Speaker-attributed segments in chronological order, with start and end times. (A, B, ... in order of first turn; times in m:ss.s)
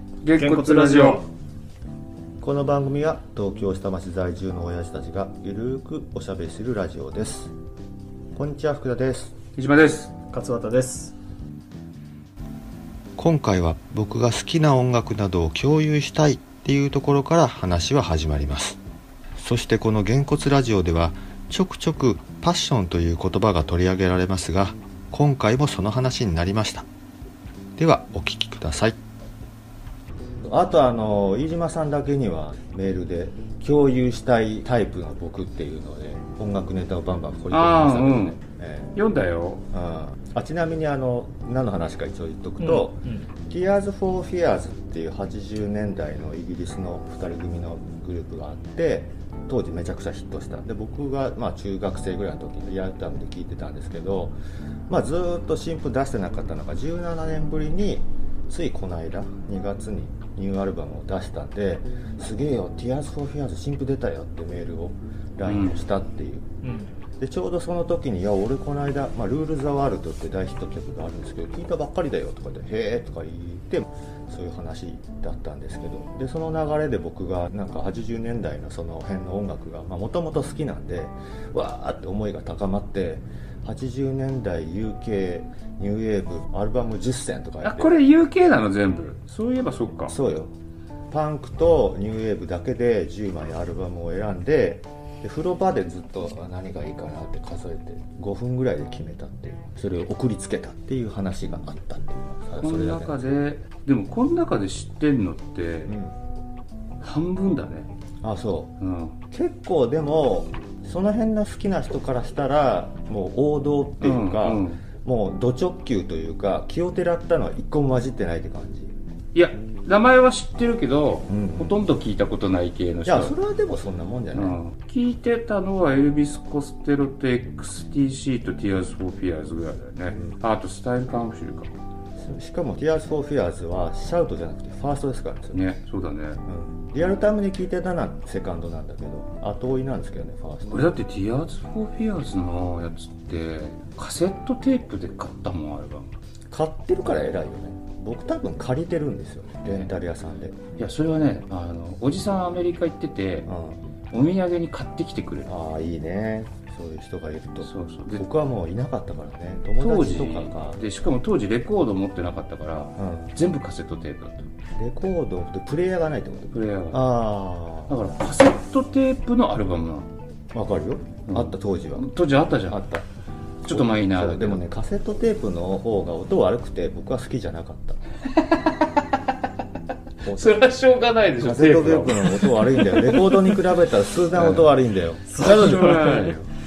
0:00.2-0:01.2 A
0:00.4-0:01.3 B
0:02.4-0:07.5 C
0:08.4-0:09.3 C
0:09.6-0:10.1 A
0:10.3-0:11.1 B
0:13.2-0:18.8 C
0:19.4-0:26.9 C
0:27.8-0:29.0 C
0:30.4-0:38.9 C
0:37.5-0:38.4 A
0:39.0-0:39.6 A
0:39.7-0:54.4 C
0:42.6-0:43.3 B
0:54.9-1:06.5 C
1:05.4-1:05.9 A
1:06.6-1:06.9 B
1:07.2-1:27.9 C
1:27.6-1:30.2 A
1:30.1-1:30.5 C
1:31.1-1:43.3 C
1:42.6-1:46.0 A
1:45.9-1:46.1 C
1:47.0-1:47.9 A
1:48.2-1:48.7 C
1:48.8-1:49.2 A
1:49.3-1:58.9 C
1:54.0-1:54.8 A
1:59.3-2:03.3 A
2:01.3-2:01.8 C
2:03.1-2:04.6 C
2:04.3-2:11.7 A
2:12.2-2:15.6 C
2:15.5-2:16.4 A
2:16.5-2:20.9 C
2:20.7-2:26.1 A
2:26.5-2:30.6 C
2:30.8-2:33.5 A
2:33.5-2:33.8 C
2:34.1-2:35.5 A
2:35.5-2:40.8 C
2:37.6-2:38.2 A
2:39.8-2:44.5 A
2:43.0-2:43.3 C
2:44.8-2:48.0 C
2:46.5-2:47.1 A
2:47.9-2:50.1 A
2:50.5-2:52.1 C
2:51.3-2:52.8 A
2:52.7-2:53.0 C
2:53.6-2:58.0 C
2:53.7-2:54.6 A
2:58.4-2:58.9 A
3:00.2-3:00.6 C
3:00.3-3:03.3 A
3:01.4-3:06.1 C
3:04.3-3:04.8 A
3:05.3-3:06.4 B
3:05.4-3:06.4 A